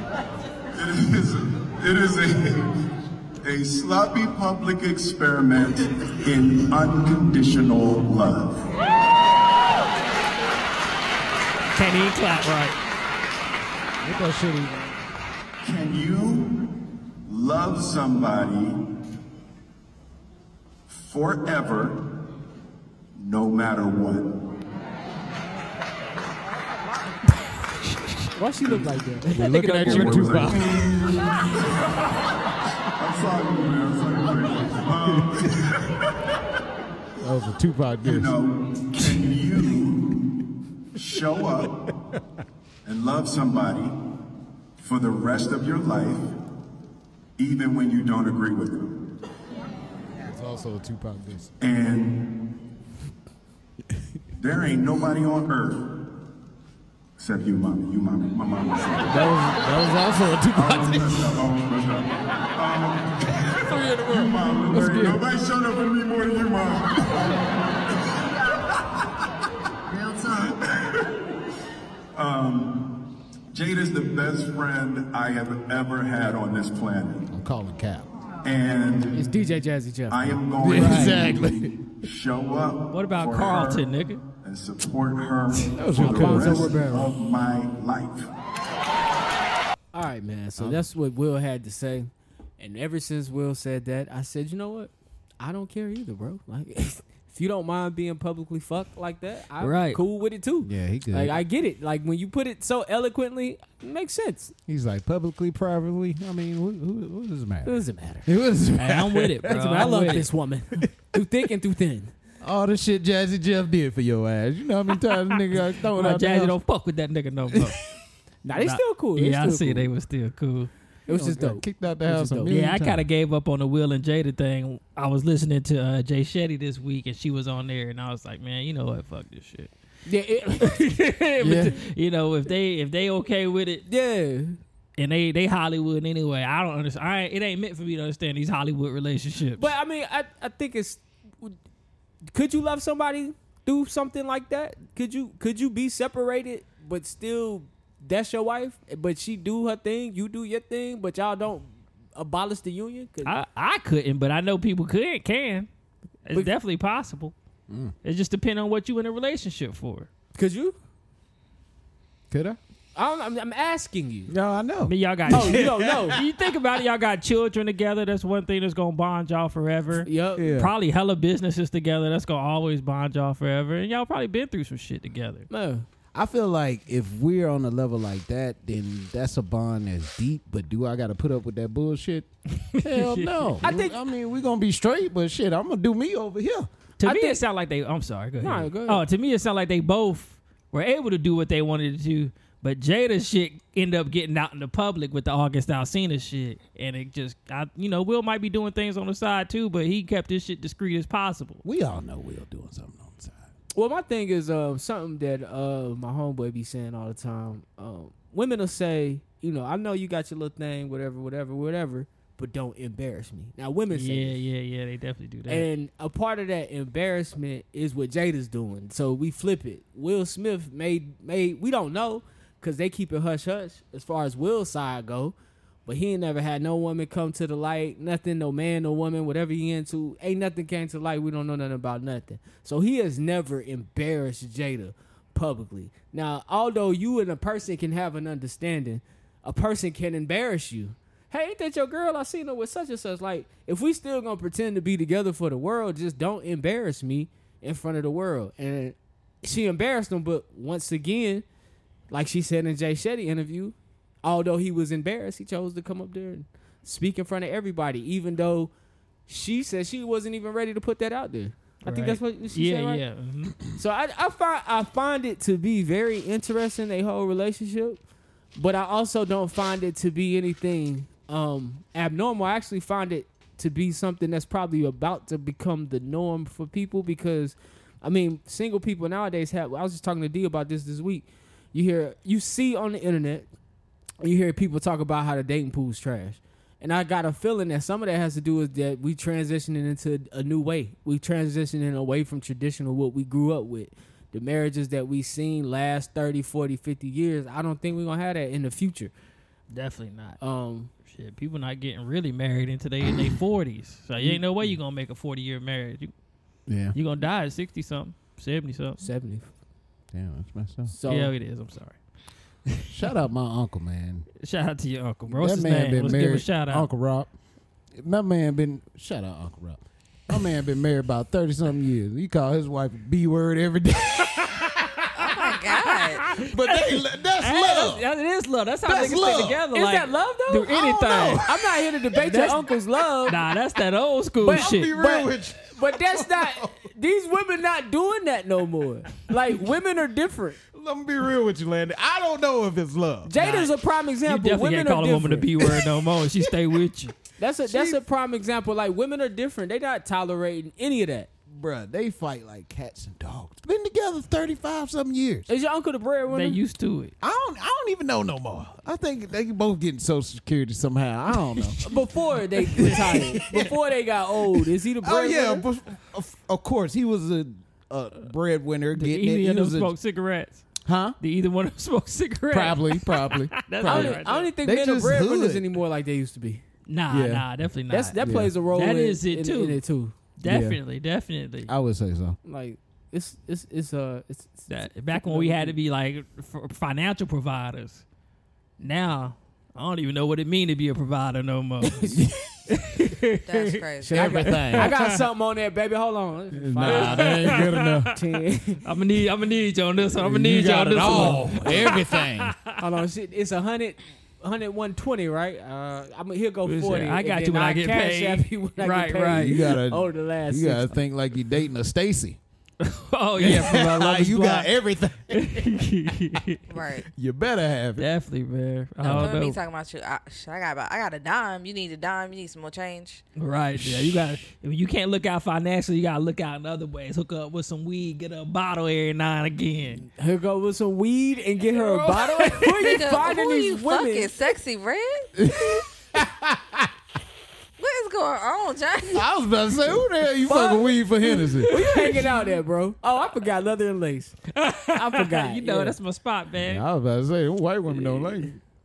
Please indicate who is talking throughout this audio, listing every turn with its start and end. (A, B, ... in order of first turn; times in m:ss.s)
0:00.8-0:02.6 A
0:03.4-0:08.6 A
0:11.7-0:12.8 B
0:14.0-0:14.8 C
0:15.6-0:16.5 A
0:17.3-0:18.8 A
0:20.9-0:22.0 A
0:23.2-0:24.3 A
0:28.4-0:29.5 D
0:29.3-0:30.9 C
0:29.4-0:30.5 B
0:29.8-0:31.9 A
0:33.0-0:36.1 A
0:37.2-0:38.3 C
0:38.0-0:40.0 A
0:41.0-0:41.7 A
0:42.8-0:43.9 A
0:44.8-0:46.3 A
0:47.4-0:48.9 A
0:50.2-0:51.5 C
0:51.6-0:52.2 A
0:54.4-0:55.8 A
0:57.2-0:59.3 A
0:59.1-1:01.2 C
1:00.5-1:07.5 A
1:04.3-1:05.2 C
1:12.2-1:12.8 A
1:13.5-1:17.2 A
1:17.3-1:18.1 C
1:18.4-1:19.2 A
1:19.1-1:20.2 D
1:20.1-1:23.8 A
1:20.6-1:21.7 C
1:20.8-1:21.2 D
1:22.9-1:24.2 B
1:24.4-1:28.2 A
1:25.7-1:26.7 C
1:26.0-1:27.1 D
1:29.9-1:44.5 D
1:39.6-1:40.0 B
1:40.6-1:41.4 C
1:44.7-1:49.5 C
1:47.6-1:48.3 D
1:48.8-1:50.3 B
1:49.5-1:52.1 D
1:52.4-1:56.6 C
1:55.5-1:57.8 B
1:58.4-1:59.9 D
1:58.6-2:00.7 B
2:01.1-2:02.5 D
2:01.1-2:03.0 C
2:02.5-2:09.7 B
2:10.0-2:10.9 D
2:10.8-2:13.9 B
2:11.4-2:11.7 C
2:13.9-2:14.6 D
2:15.0-2:19.7 B
2:19.6-2:21.6 D
2:22.3-2:33.4 D
2:33.2-2:35.7 B
2:36.2-2:37.3 B
2:37.7-2:37.9 C
2:38.0-2:40.1 B
2:40.3-2:40.8 D
2:42.3-2:42.6 C
2:42.9-2:44.3 D
2:44.3-2:46.2 C
2:44.8-2:55.5 B
2:45.3-2:46.2 D
2:50.0-2:50.5 D
2:50.4-2:50.7 C
2:55.5-2:55.8 D
2:56.1-3:02.3 C
3:02.8-3:03.7 B
3:02.8-3:06.7 C
3:03.6-3:04.0 D
3:07.0-3:21.6 B
3:07.0-3:07.5 D
3:08.4-3:09.0 D
3:21.6-3:23.4 C
3:23.7-3:34.4 D
3:33.9-3:35.7 B
3:35.5-3:45.3 D
3:45.8-4:11.4 D
4:12.1-4:18.7 D
4:19.3-4:23.0 D
4:21.8-4:23.6 B
4:23.7-4:28.0 D
4:28.5-4:43.5 D
4:44.2-4:59.1 D
4:59.7-5:00.4 B
5:00.4-5:00.9 D
5:01.0-5:06.1 B
5:06.7-5:07.0 C
5:06.9-5:09.0 B
5:09.0-5:09.5 D
5:10.1-5:10.9 C
5:10.9-5:11.3 D
5:11.1-5:12.0 B
5:12.9-5:14.3 C
5:14.4-5:16.9 B
5:15.4-5:17.3 C
5:18.0-5:24.8 C
5:24.4-5:31.4 B
5:25.2-5:26.2 E
5:26.4-5:28.0 C
5:28.8-5:29.6 C
5:28.9-5:33.4 D
5:30.7-5:31.8 C
5:32.1-5:32.7 B
5:33.2-5:34.9 B
5:34.4-5:40.6 D
5:34.5-5:36.8 C
5:40.7-5:43.3 C
5:43.2-5:45.8 D
5:43.4-5:47.1 B
5:47.4-5:51.3 D
5:47.6-5:48.0 C
5:51.5-5:55.5 C
5:55.5-5:56.6 D
5:56.3-5:57.1 B
5:57.2-6:02.0 C
6:01.8-6:05.6 D
6:02.8-6:03.7 C
6:02.8-6:03.4 B
6:05.0-6:09.9 C
6:08.9-6:10.6 B
6:10.8-6:11.2 C
6:11.2-6:14.5 B
6:12.5-6:15.7 C
6:13.8-6:16.6 D
6:16.9-6:18.2 B
6:17.1-6:17.5 C
6:17.9-6:20.1 D
6:18.2-6:18.5 C
6:18.7-6:19.8 B
6:20.4-6:21.7 B
6:20.4-6:20.8 C
6:21.6-6:22.4 C
6:22.4-6:25.8 D
6:24.7-6:28.0 B
6:28.8-6:33.8 B
6:33.4-6:34.4 E
6:34.0-6:34.9 C
6:34.1-6:38.8 D
6:34.5-6:35.1 B
6:36.5-6:38.1 C
6:36.8-6:38.1 B
6:38.8-6:42.7 B
6:40.2-6:42.5 C
6:41.0-6:41.9 D
6:42.8-6:51.0 D
6:46.7-6:49.6 B
6:49.4-6:52.4 C
6:52.8-6:54.7 B
6:53.4-6:55.7 C
6:55.3-6:56.6 B
6:56.7-6:57.1 E
6:57.1-6:58.1 C
6:58.0-6:59.6 B
6:59.0-7:03.2 E
6:59.0-6:59.4 C
7:03.4-7:10.0 B
7:03.7-7:04.3 C
7:10.1-7:14.3 D
7:11.7-7:13.3 B
7:12.8-7:15.3 E
7:15.4-7:16.9 C
7:17.8-7:19.2 E
7:19.1-7:21.7 C
7:20.4-7:21.0 D
7:21.4-7:22.3 B
7:21.6-7:26.0 D
7:24.6-7:26.8 B
7:26.5-7:28.6 C
7:28.0-7:28.3 B